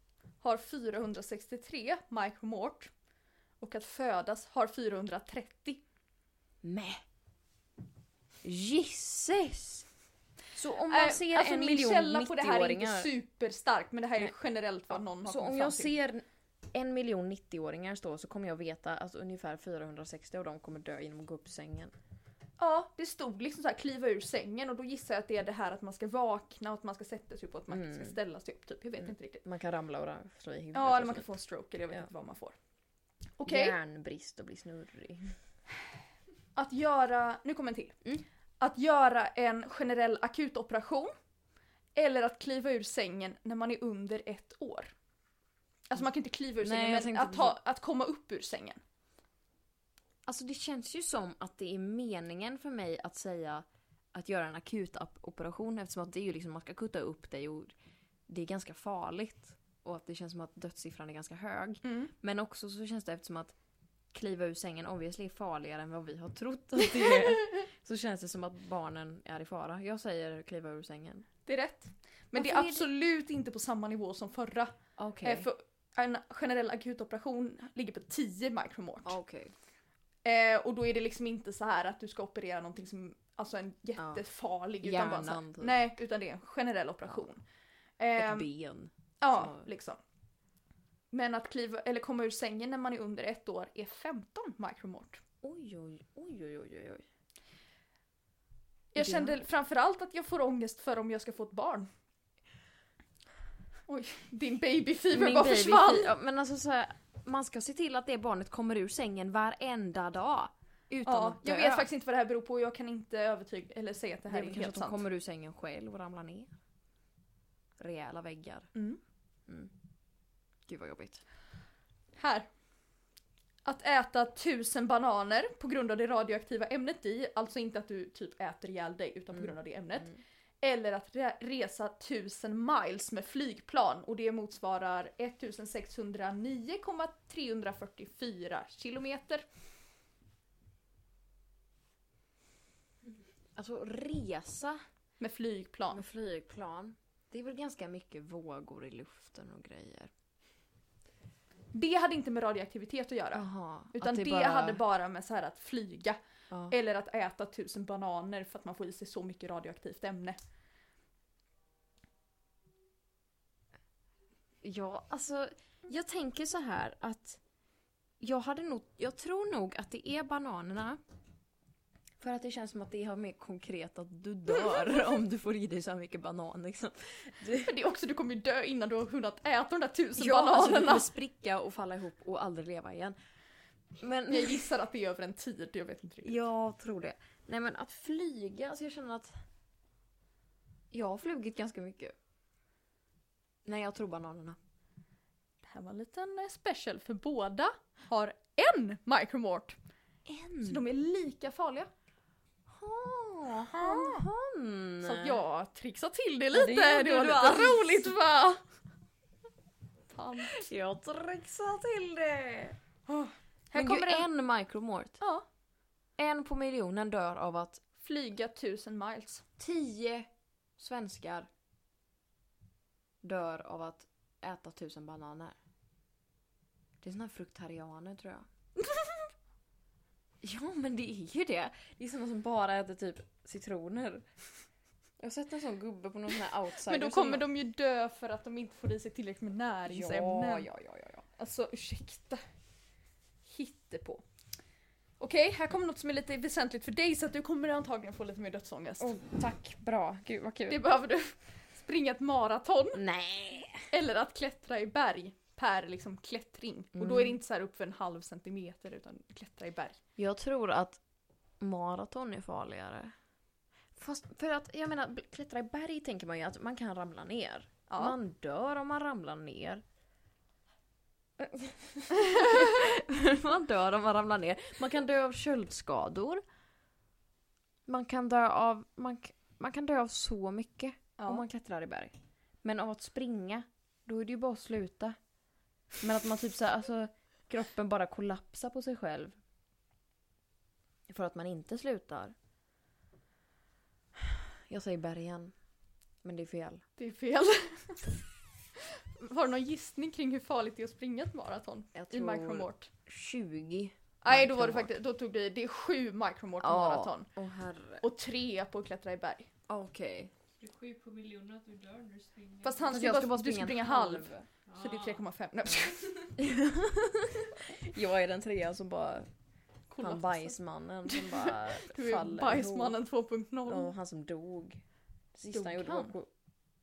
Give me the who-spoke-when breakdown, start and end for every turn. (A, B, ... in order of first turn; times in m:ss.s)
0:00.4-0:02.9 A
0:03.6-0:05.8 A
0:06.6-0:07.0 B
0:08.4-0:09.8 B
0:10.5-0:13.1 B
0:10.9-0:15.9 A
0:15.2-0:21.9 B
0:22.6-0:29.4 A
0:27.7-0:28.1 B
0:29.0-0:31.3 B
0:30.7-0:32.6 A
0:33.4-0:33.8 A
0:33.4-0:35.4 B
0:36.5-0:38.0 A
0:38.6-0:41.1 A
0:41.9-0:44.9 A
0:45.9-0:48.8 A
0:46.6-0:47.6 B
0:50.3-0:57.7 B
0:58.3-1:03.5 B
1:01.8-1:02.1 A
1:04.1-1:11.3 B
1:11.4-1:19.2 A
1:12.3-1:12.9 B
1:15.0-1:15.5 B
1:19.0-1:19.5 B
1:20.2-1:27.4 A
1:24.0-1:24.2 B
1:24.8-1:25.8 B
1:28.0-1:28.5 A
1:28.2-1:29.7 B
1:29.2-1:30.0 A
1:31.1-1:35.2 A
1:35.4-1:37.0 B
1:38.9-1:41.9 A
1:39.0-1:39.4 B
1:43.9-1:46.1 A
1:45.1-1:51.9 B
1:51.0-1:55.0 A
1:54.3-1:56.5 B
1:57.8-1:58.7 B
1:58.7-1:59.0 A
2:00.7-2:01.2 B
2:02.2-2:02.5 A
2:03.6-2:19.4 A
2:23.6-2:24.8 B
2:25.2-2:26.0 A
2:25.9-2:30.1 B
2:31.7-2:40.4 A
2:33.3-2:34.8 B
2:44.6-2:47.4 B
2:48.2-2:51.0 B
2:52.2-2:57.7 B
2:57.6-3:01.1 A
3:00.2-3:03.2 B
3:04.0-3:04.6 B
3:04.3-3:06.4 A
3:06.2-3:09.3 B
3:10.9-3:12.1 B
3:13.6-3:14.6 B
3:15.6-3:19.8 A
3:20.3-3:20.8 B
3:20.6-3:21.9 A
3:22.7-3:25.4 B
3:23.7-3:24.2 A
3:25.0-3:28.6 A
3:26.5-3:28.1 B
3:30.1-3:30.6 A
3:30.4-3:32.8 B
3:33.1-3:34.3 A
3:33.7-3:35.2 B
3:35.2-3:35.4 A
3:36.2-3:37.8 B
3:38.0-3:39.4 A
3:39.6-3:41.5 B
3:43.2-3:45.6 B
3:47.0-3:48.5 B
3:50.4-3:54.2 B
3:55.2-3:57.5 B
3:56.8-4:00.7 A
3:59.8-4:01.2 B
4:01.4-4:02.4 A
4:03.4-4:04.2 A
4:05.2-4:09.1 A
4:09.0-4:10.8 B
4:10.7-4:13.0 A
4:12.9-4:13.9 B
4:13.9-4:20.0 A
4:17.0-4:17.4 B
4:20.2-4:21.0 B
4:21.6-4:23.1 B
4:24.0-4:29.8 B
4:27.9-4:28.2 A
4:31.4-4:36.4 B
4:37.9-4:45.2 B
4:41.2-4:41.4 A
4:46.0-4:49.4 B
4:51.1-4:52.3 B
4:54.3-4:55.5 B
4:56.2-4:56.8 B
4:57.0-4:58.1 A
4:58.7-5:02.9 A
5:01.9-5:04.9 B
5:04.2-5:07.3 A
5:06.6-5:08.0 B
5:08.0-5:09.5 A
5:09.7-5:10.3 B
5:10.6-5:12.9 C
5:12.6-5:16.1 A
5:12.9-5:14.4 B
5:14.7-5:15.2 C
5:16.4-5:19.3 B
5:19.9-5:23.9 A
5:20.0-5:23.0 B
5:23.7-5:24.8 B
5:25.3-5:26.3 B
5:25.5-5:26.1 A